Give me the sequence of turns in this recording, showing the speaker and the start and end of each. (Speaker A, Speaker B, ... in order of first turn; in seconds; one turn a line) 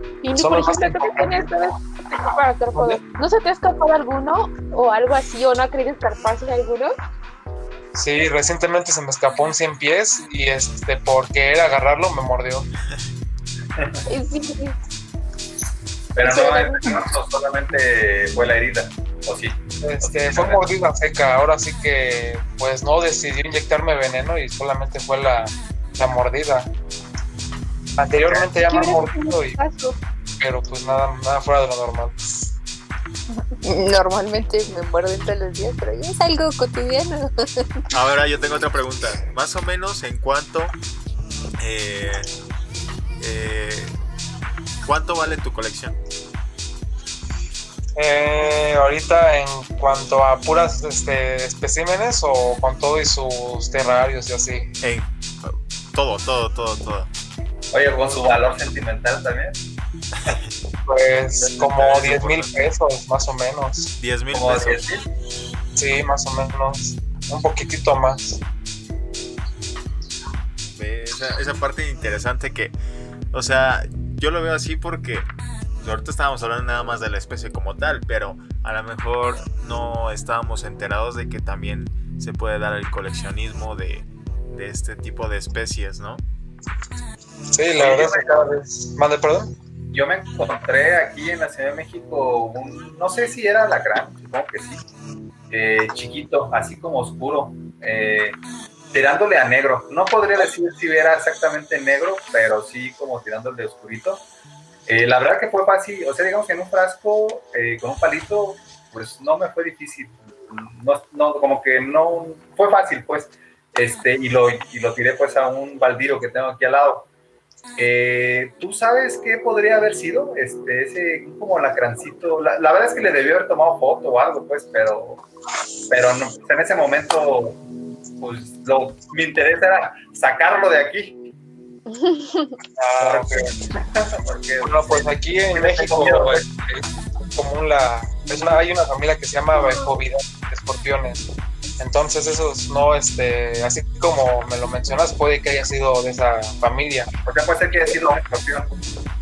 Speaker A: 0.2-6.9
Speaker B: 0.3-1.5
Speaker B: 2.7-3.0
Speaker B: 7.9-12.7
Speaker C: 13.8-14.0
Speaker A: 14.1-14.7
Speaker C: 16.1-20.7
Speaker A: 16.2-17.1
Speaker B: 19.8-26.7
Speaker B: 28.0-29.6
Speaker A: 28.4-29.9
Speaker B: 30.4-32.1
Speaker D: 33.6-37.8
Speaker E: 37.9-40.7
Speaker E: 41.6-42.3
Speaker E: 43.2-43.9
Speaker E: 44.8-45.9
Speaker B: 48.0-54.7
Speaker E: 54.8-57.1
Speaker C: 57.7-59.6
Speaker E: 60.2-60.5
Speaker B: 60.9-63.9
Speaker E: 61.6-62.5
Speaker E: 64.0-64.8
Speaker C: 64.3-65.0
Speaker B: 65.8-68.4
Speaker E: 70.7-72.7
Speaker E: 73.3-75.3
Speaker E: 75.8-86.2
Speaker B: 87.5-89.5
Speaker C: 87.8-88.3
Speaker C: 89.9-94.8
Speaker C: 95.5-98.4
Speaker C: 98.9-104.2
Speaker C: 104.9-117.1
Speaker C: 117.8-125.2
Speaker C: 125.9-127.6
Speaker C: 128.2-131.2
Speaker A: 131.9-132.5
Speaker B: 132.8-133.5
Speaker C: 133.0-136.5
Speaker B: 134.6-141.3
Speaker B: 141.8-147.1
Speaker C: 147.2-148.7